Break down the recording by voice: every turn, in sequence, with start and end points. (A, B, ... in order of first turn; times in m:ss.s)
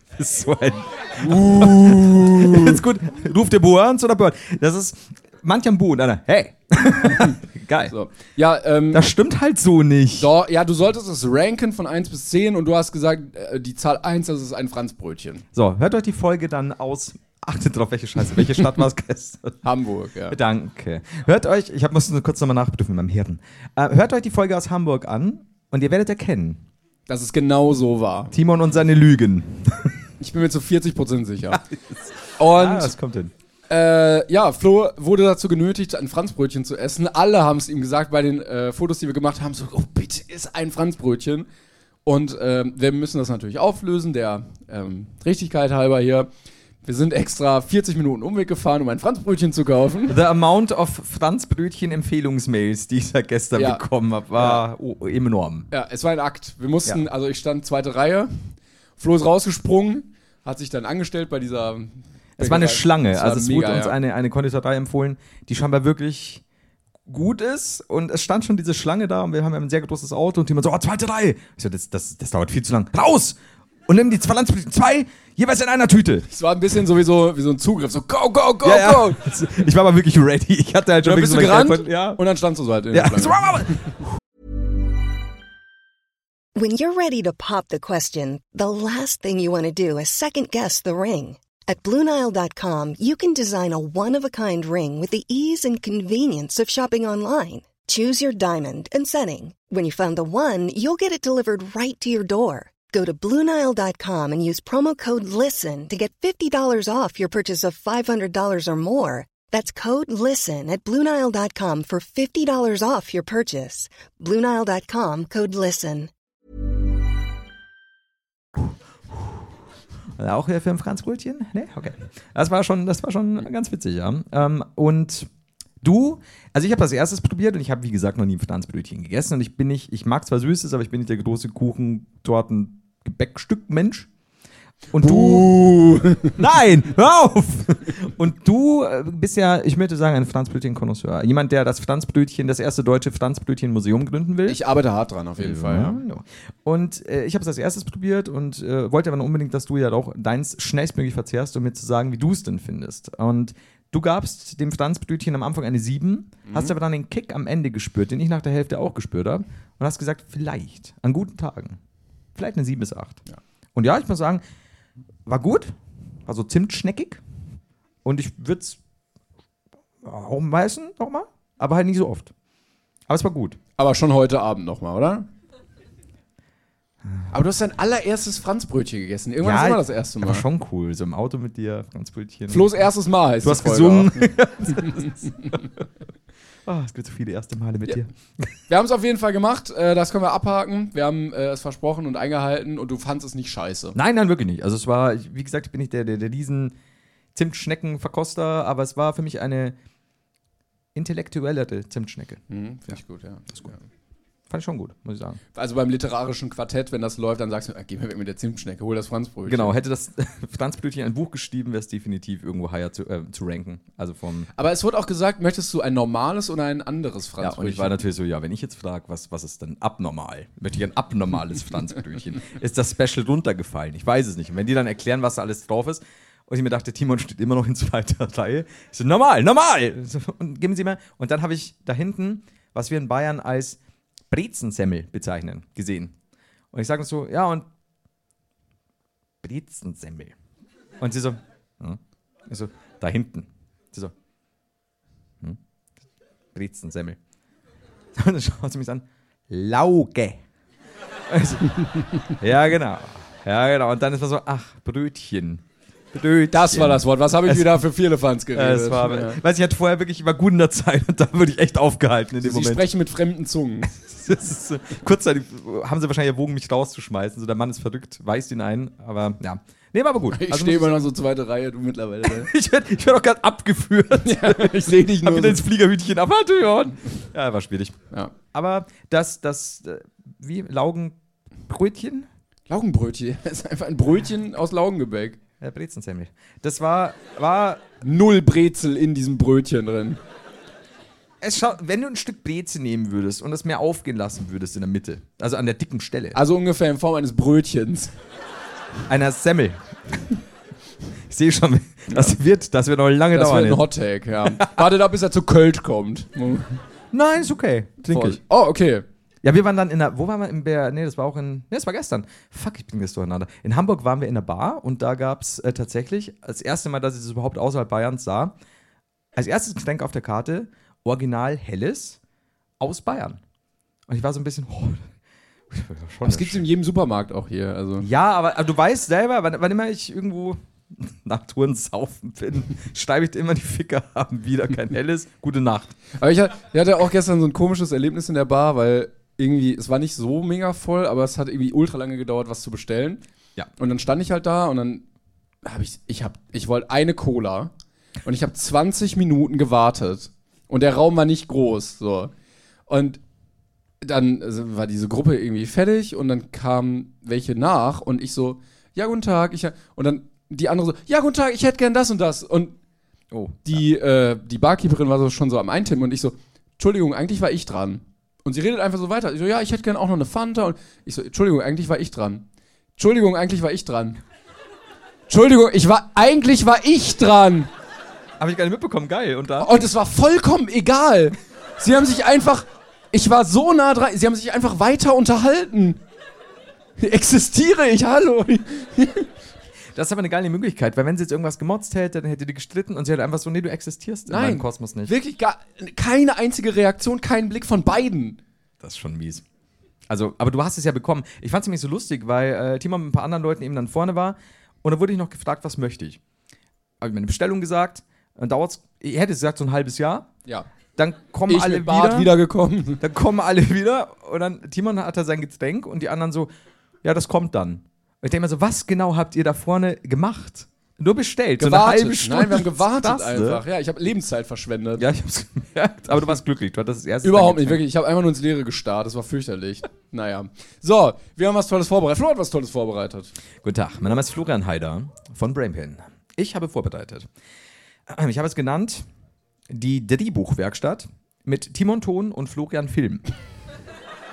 0:00.1-0:07.9 A
0:01.2-0:02.8 B
0:07.0-0:09.1 B
0:08.9-0:10.3 A
0:10.2-0:15.4 B
0:15.5-0:19.6 A
0:19.6-0:20.4 B
0:20.3-0:26.6 A
0:27.1-0:28.3 B
0:28.3-0:30.0 A
0:30.2-0:31.6 B
0:31.5-0:33.3 A
0:32.4-0:32.9 B
0:33.7-0:41.5 B
0:42.0-0:46.3 B
0:46.8-0:50.2 B
0:50.1-0:55.7 A
0:53.5-0:53.8 B
0:54.4-0:54.6 B
0:55.7-1:03.9 B
1:02.4-1:06.4 A
1:07.1-1:16.2 A
1:16.3-1:19.4 B
1:18.6-1:22.2 A
1:21.0-1:24.0 B
1:22.9-1:24.0 A
1:26.5-1:56.1 C
2:00.2-2:05.3 A
2:05.8-2:14.1 A
2:14.9-2:15.5 A
2:15.0-2:16.4 B
2:16.2-2:24.6 A
2:24.5-2:26.0 B
2:25.4-2:41.8 A
2:36.4-2:36.7 B
2:42.4-2:43.2 A
2:43.7-2:44.4 A
2:45.2-2:45.7 A
2:46.2-2:47.2 A
2:48.0-2:48.8 A
2:50.0-2:52.3 A
2:53.1-2:53.6 A
2:53.8-2:55.3 B
2:57.3-3:00.4 B
2:59.4-3:02.7 A
3:02.5-3:05.6 B
3:03.4-3:05.6 A
3:06.6-3:08.5 A
3:08.7-3:14.0 B
3:13.9-3:16.8 A
3:17.3-3:19.8 A
3:20.9-3:22.4 A
3:22.5-3:23.8 B
3:24.5-3:25.4 A
3:25.5-3:29.7 B
3:29.4-3:34.5 A
3:34.6-3:37.9 B
3:37.4-3:56.1 A
3:56.7-3:57.7 A
3:59.4-4:00.3 A
4:01.0-4:04.1 A
4:06.5-4:07.2 A
4:08.2-4:10.4 A
4:11.3-4:11.8 A
4:12.4-4:17.8 A
4:16.5-4:19.4 B
4:18.5-4:22.8 A
4:22.4-4:24.0 B
4:24.0-4:30.9 A
4:30.3-4:32.5 B
4:32.2-4:38.0 A
4:34.2-4:35.6 B
4:38.5-4:41.2 A
4:41.7-4:42.3 A
4:42.7-4:45.4 B
4:45.6-4:47.8 A
4:48.0-4:50.2 B
4:51.4-4:56.4 A
4:56.3-4:58.1 B
4:59.1-5:00.3 A
5:01.3-5:03.9 A
5:02.1-5:02.3 B
5:03.3-5:06.8 B
5:04.4-5:04.8 A
5:07.1-5:08.4 A
5:08.1-5:09.0 B
5:09.4-5:18.5 A
5:19.3-5:22.2 A
5:22.8-5:23.4 A
5:24.1-5:25.1 A
5:25.7-5:26.6 A
5:26.2-5:28.1 B
5:28.0-5:36.0 A
5:36.1-5:43.2 B
5:43.8-5:45.0 B
5:45.6-5:47.7 B
5:48.2-5:52.3 B
5:52.9-5:53.2 B
5:54.0-6:02.7 B
6:03.3-6:03.8 A
6:03.6-6:12.4 B
6:13.0-6:14.2 B
6:15.3-6:17.7 B
6:18.4-6:19.7 A
6:19.6-6:26.0 B
6:27.0-6:29.3 B
6:29.9-6:35.1 A
6:34.3-6:38.4 B
6:38.8-6:39.4 A
6:40.1-6:46.2 A
6:47.0-6:50.3 A
6:51.0-6:52.3 A
6:51.5-6:53.0 B
6:53.0-6:56.5 A
6:57.0-7:03.6 A
7:01.6-7:05.0 B
7:05.0-7:07.8 A
7:07.2-7:13.3 B
7:13.6-7:17.3 A
7:18.1-7:19.0 A
7:19.7-7:23.2 A